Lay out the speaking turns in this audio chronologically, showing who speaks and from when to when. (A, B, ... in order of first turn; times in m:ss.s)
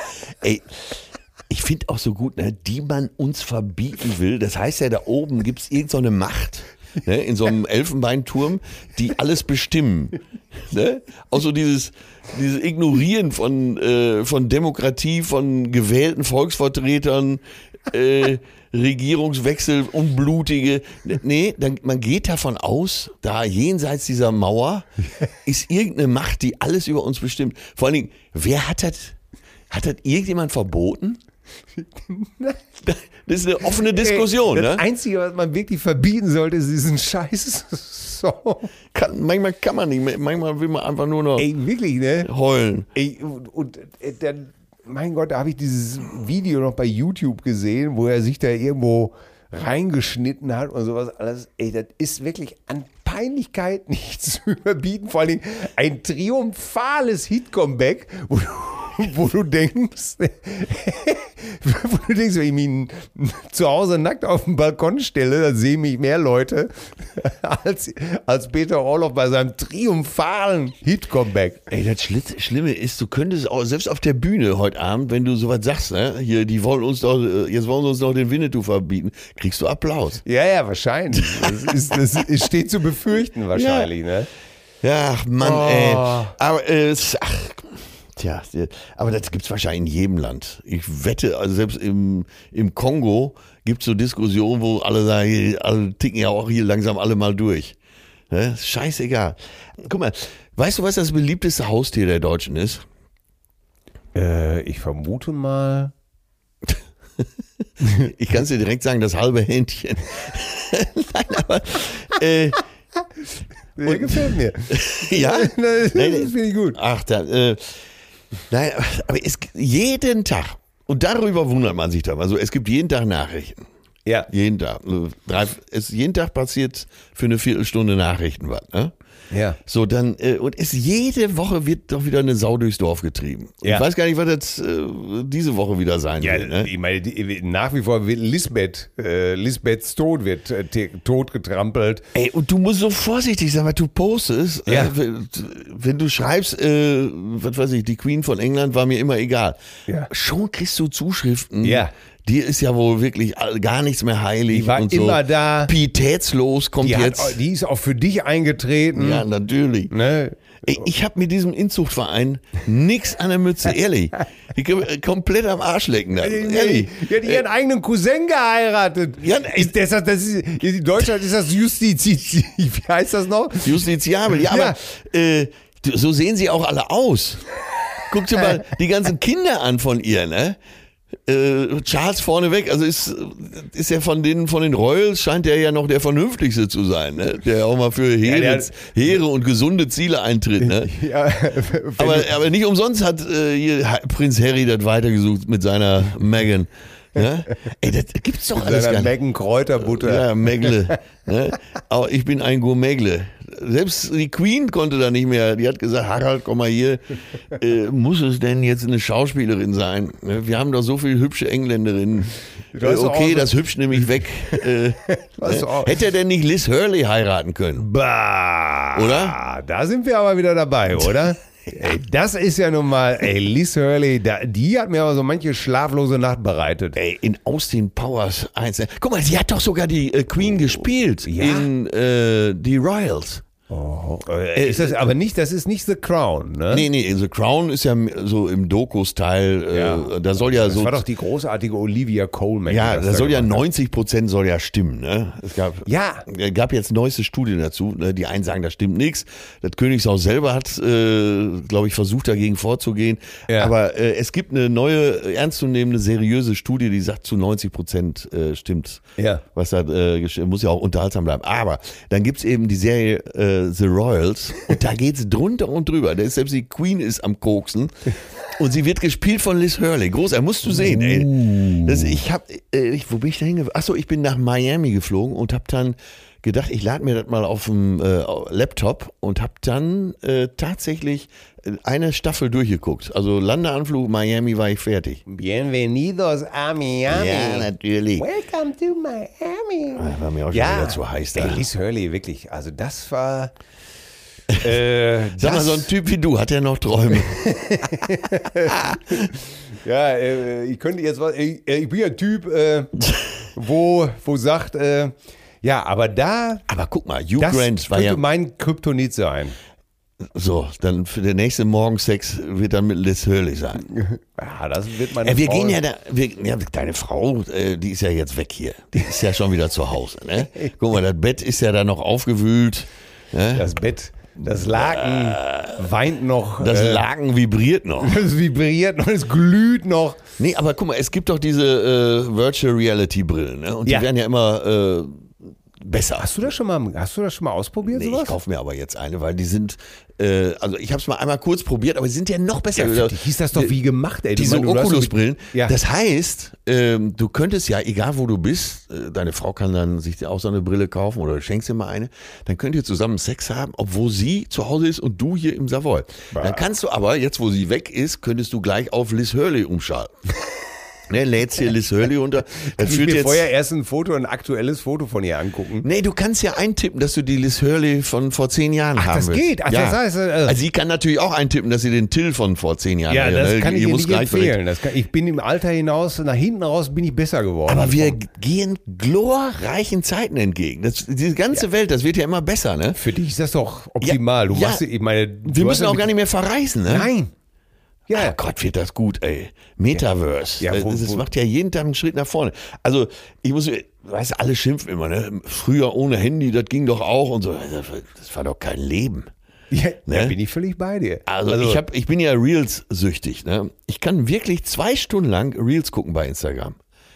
0:00.4-0:24.9 A
0:25.4-0:29.2 A
0:29.7-0:31.2 A
0:31.8-0:32.6 B
0:32.8-0:34.8 A
0:33.8-0:38.7 B
0:38.9-0:41.5 A
0:41.4-0:42.3 B
0:42.2-0:42.9 A
0:42.9-1:11.7 B
1:11.7-1:20.2 A
1:20.2-1:24.3 B
1:21.2-1:21.6 A
1:23.5-1:23.9 A
1:24.8-1:37.8 A
1:25.4-1:26.3 B
1:38.3-1:42.8 A
1:44.1-1:45.9 B
1:47.9-1:52.6 A
1:53.8-1:56.8 B
1:53.8-1:57.8 A
1:58.5-2:03.6 A
2:04.3-2:08.9 A
2:09.3-2:09.6 B
2:09.6-2:16.7 A
2:16.2-2:22.0 B
2:22.1-2:29.6 A
2:24.7-2:24.9 B
2:30.1-2:37.4 A
2:31.6-2:31.9 B
2:34.5-2:35.7 B
2:36.8-2:39.2 B
2:39.0-2:39.9 A
2:39.9-2:40.6 B
2:40.6-2:47.4 A
2:46.2-2:54.8 B
2:49.2-2:49.7 A
2:53.6-2:57.5 A
2:58.1-3:00.6 A
3:01.2-3:10.9 A
3:08.2-3:08.8 B
3:10.6-3:12.3 B
3:12.0-3:19.1 A
3:18.5-3:21.0 B
3:19.8-3:37.9 A
3:32.7-3:33.5 B
3:34.5-3:36.0 B
3:37.8-3:47.0 B
3:38.9-3:39.4 A
3:46.9-3:53.4 A
3:51.2-3:51.7 B
3:53.7-3:56.8 B
3:54.6-3:55.0 A
3:56.7-4:01.0 A
3:59.7-4:03.6 B
4:02.7-4:19.0 A
4:05.8-4:06.2 B
4:19.2-4:19.4 B
4:19.5-4:27.9 A
4:28.5-4:45.2 A
4:30.7-4:32.1 B
4:45.3-4:53.5 B
4:47.1-4:48.2 A
4:50.0-4:51.6 A
4:54.6-4:55.9 B
4:55.4-4:57.5 A
4:57.2-5:03.0 B
4:58.6-4:59.2 A
5:03.5-5:06.6 B
5:06.7-5:08.2 A
5:07.4-5:09.5 B
5:10.2-5:13.8 A
5:13.8-5:15.8 B
5:15.2-5:23.7 A
5:23.5-5:27.0 B
5:24.4-5:25.9 A
5:26.6-5:28.2 A
5:28.0-5:30.2 B
5:30.4-5:36.5 A
5:36.2-5:38.4 B
5:37.9-5:43.7 A
5:42.7-5:45.7 B
5:44.3-6:00.1 A
5:56.3-5:56.6 B
6:01.1-6:03.4 A
6:02.6-6:05.9 B
6:05.8-6:14.6 A
6:09.0-6:10.6 B
6:13.1-6:18.2 B
6:17.7-6:23.0 A
6:22.9-6:26.1 B
6:24.0-6:24.8 A
6:25.4-6:27.1 A
6:26.9-6:27.3 B
6:28.1-6:28.4 B
6:28.1-6:39.3 A
6:30.6-6:31.2 B
6:39.7-6:41.8 B
6:40.1-6:40.4 A
6:41.2-6:46.8 A